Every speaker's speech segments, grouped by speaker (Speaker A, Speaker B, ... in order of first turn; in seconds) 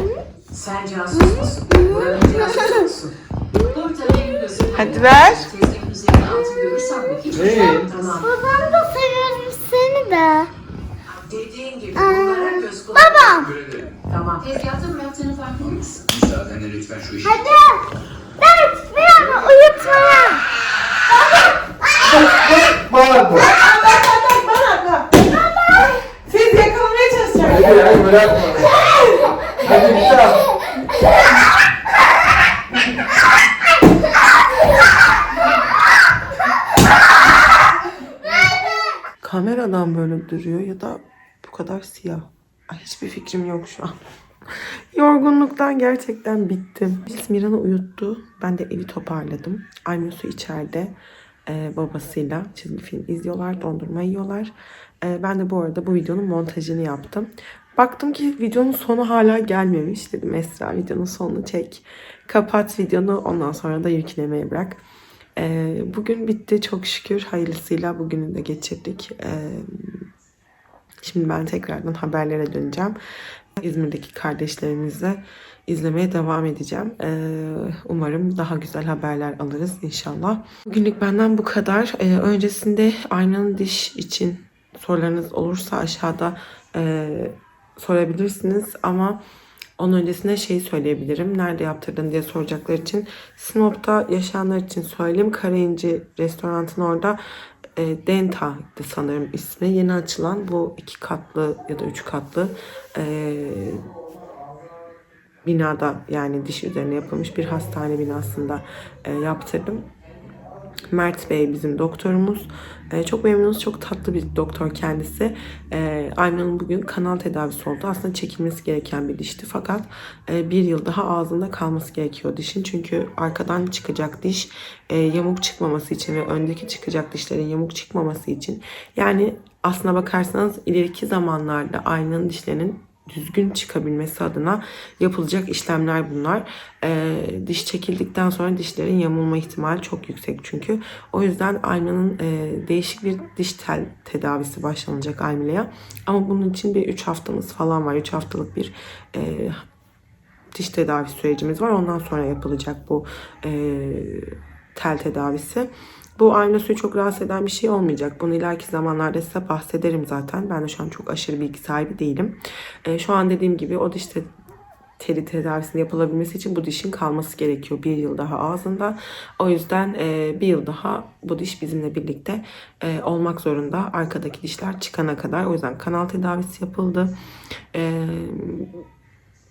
Speaker A: 0.5-8.3, 11.1-16.4
Speaker B: 1.7-2.7, 8.0-10.5, 11.9-13.6, 17.2-17.8, 18.4-20.4
Speaker C: 4.8-5.5, 23.3-25.3, 26.2-28.0, 28.7-30.1, 39.2-44.0, 44.5-51.0, 51.5-64.8, 65.4-70.1, 71.0-73.0, 73.6-89.2, 89.8-97.2, 97.8-103.8, 105.4-109.8, 110.9-149.6, 150.5-164.3, 165.0-177.1, 177.7-178.8
Speaker D: 7.3-7.9, 22.1-23.5, 27.5-28.7, 29.6-30.4